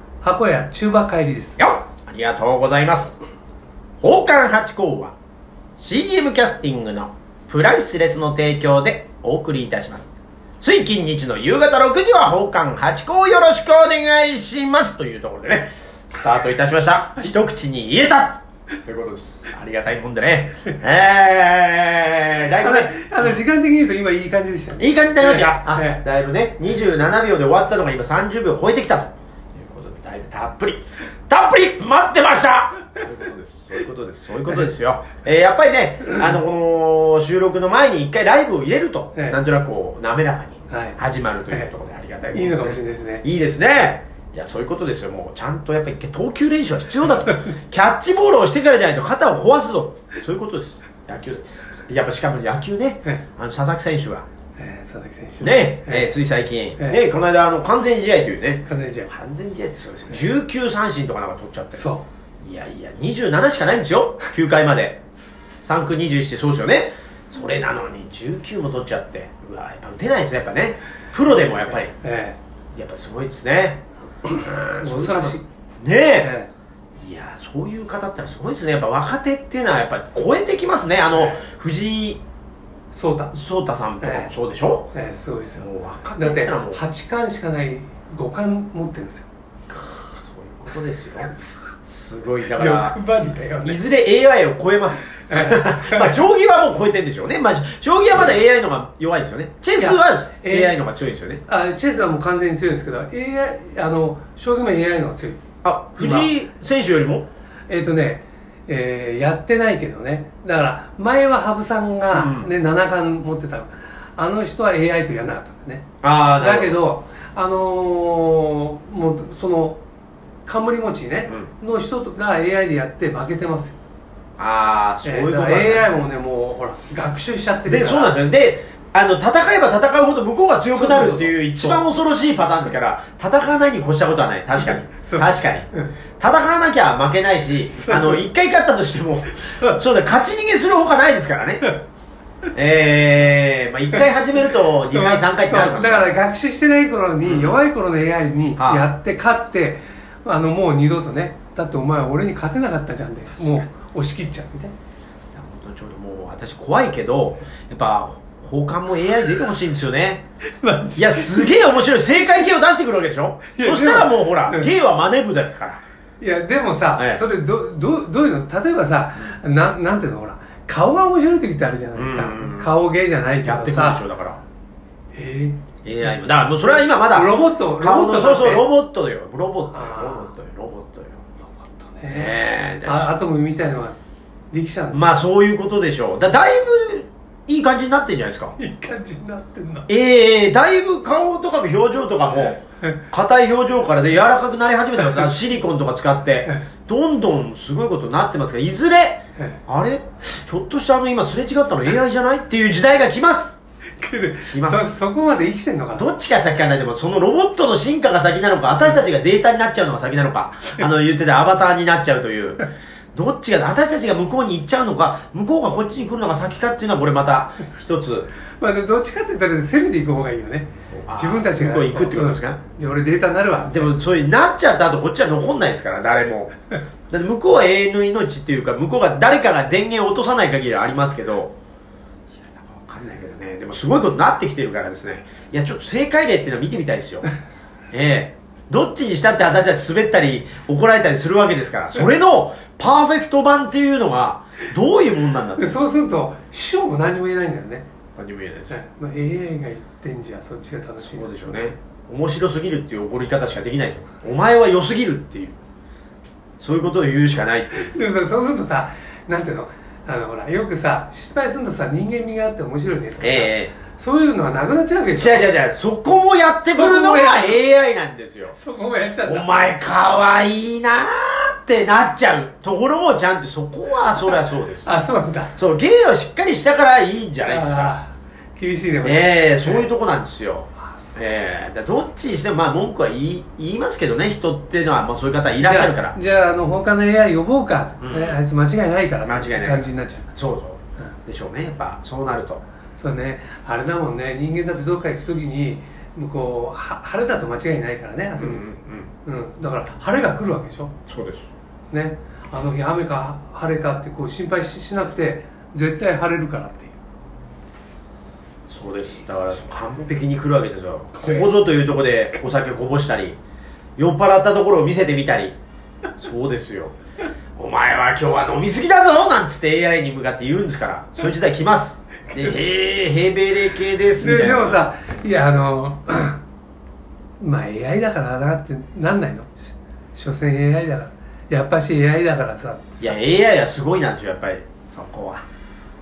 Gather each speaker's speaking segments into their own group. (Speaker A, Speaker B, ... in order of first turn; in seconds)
Speaker A: 0.2-1.6, 22.6-26.0, 40.7-41.0, 42.3-43.2, 54.6-56.1, 58.6-59.1, 61.7-62.0, 72.0-72.4, 74.8-75.4, 76.2-76.5, 82.9-83.3, 84.0-84.3, 84.9-89.3, 92.5-93.8, 95.3-96.2, 99.8-100.8, 101.5-105.4, 106.0-106.3, 107.7-115.8, 116.4-119.8, 120.5-123.8, 125.0-128.2, 130.7-131.9, 134.6-135.9, 137.7-138.2, 139.3-139.8, 143.9-154.7, 160.6-161.5, 163.5-164.7, 166.2-174.0, 175.1-175.6, 176.9-178.7, 179.7-180.3, 181.8-184.0, 184.5-185.0, 188.6-189.9, 199.4-199.6, 204.0-206.1, 218.6-223.9, 245.6-247.9, 248.7-251.5, 257.7-265.5, 266.6-267.6, 268.5-269.5, 274.8-275.5, 277.4-279.9, 280.8-281.1, 285.6-290.3, 293.0-298.7, 299.2-300.9, 301.9-306.9, 324.2-326.4, 327.4-333.2
Speaker B: 1.6-3.2, 4.0-5.1, 5.8-23.4, 24.8-54.2, 55.4-61.8, 62.4-65.0, 65.6-71.9, 72.7-76.3, 77.0-82.2, 83.3-84.9, 85.6-86.8, 90.0-93.0, 93.6-101.4, 105.6-107.3, 112.1-112.5, 116.0-116.8, 124.4-125.9, 127.7-135.7, 136.2-141.7, 142.5-146.1, 147.2-147.6, 148.6-148.8, 153.4-153.6, 155.3-160.2, 160.9-165.8, 167.0-167.2, 171.9-172.7, 173.4-174.4, 175.8-181.2, 182.1-183.1, 184.9-188.6, 189.9-203.6, 204.4-204.9, 205.9-218.3, 220.9-222.6, 223.7-226.5, 227.1-231.5, 232.4-237.3, 237.9-245.8, 248.2-248.8, 251.0-255.6, 256.6-257.9, 263.2-263.7, 265.2-268.6, 269.2-274.9, 275.5-277.9, 279.0-286.1, 288.0-288.4, 289.2-292.6, 298.4-299.1, 301.1-301.5, 308.7-313.4, 314.0-315.6, 316.2-316.9, 317.6-324.9, 333.0-335.4